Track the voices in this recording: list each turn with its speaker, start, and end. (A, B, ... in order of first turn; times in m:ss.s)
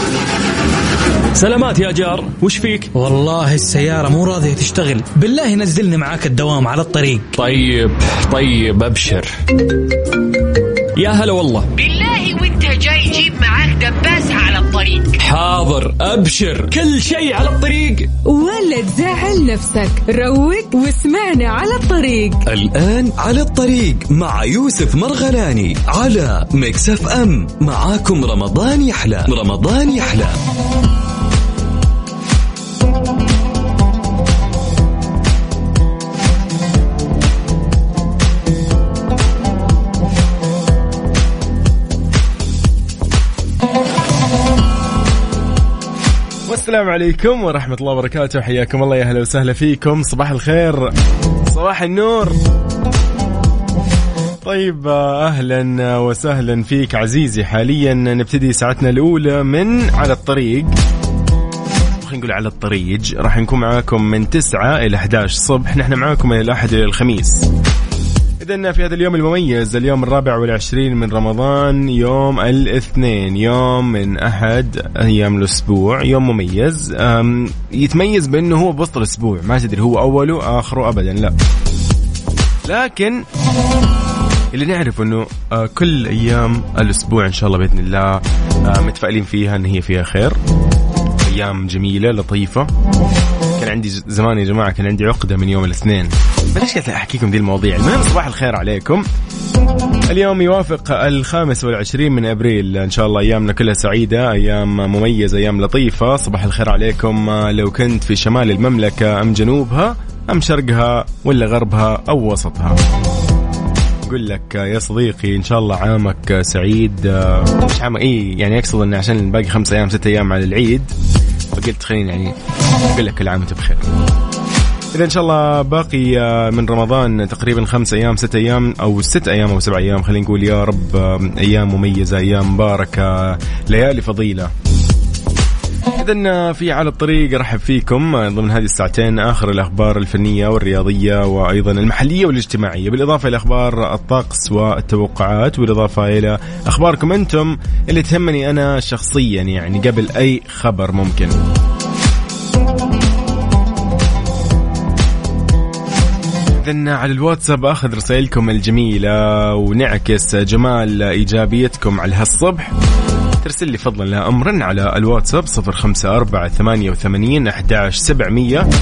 0:01.4-0:02.9 A
0:02.9-0:07.3 B
0:07.3-0:09.3 A
0:11.0-0:11.7 A
0:11.8-0:15.2 C
0:15.2-0:18.1 A
0:18.2-0:22.4 D
0:22.5-0:30.4 E
0:46.5-0:52.4 F
0:54.4-1:00.7 F
1:02.0-1:07.5 F
1:08.4-1:21.4 F
1:22.7-1:23.2 F
1:24.5-1:30.4 F
1:31.2-1:32.7 F
1:33.6-1:39.0 F
1:40.1-1:52.8 F
1:54.1-2:00.9 F
2:01.5-2:02.4 F
2:02.9-2:03.9 F
2:04.9-2:14.5 F
2:16.0-2:31.4 F
2:36.6-2:42.7 F
2:43.4-2:48.7 F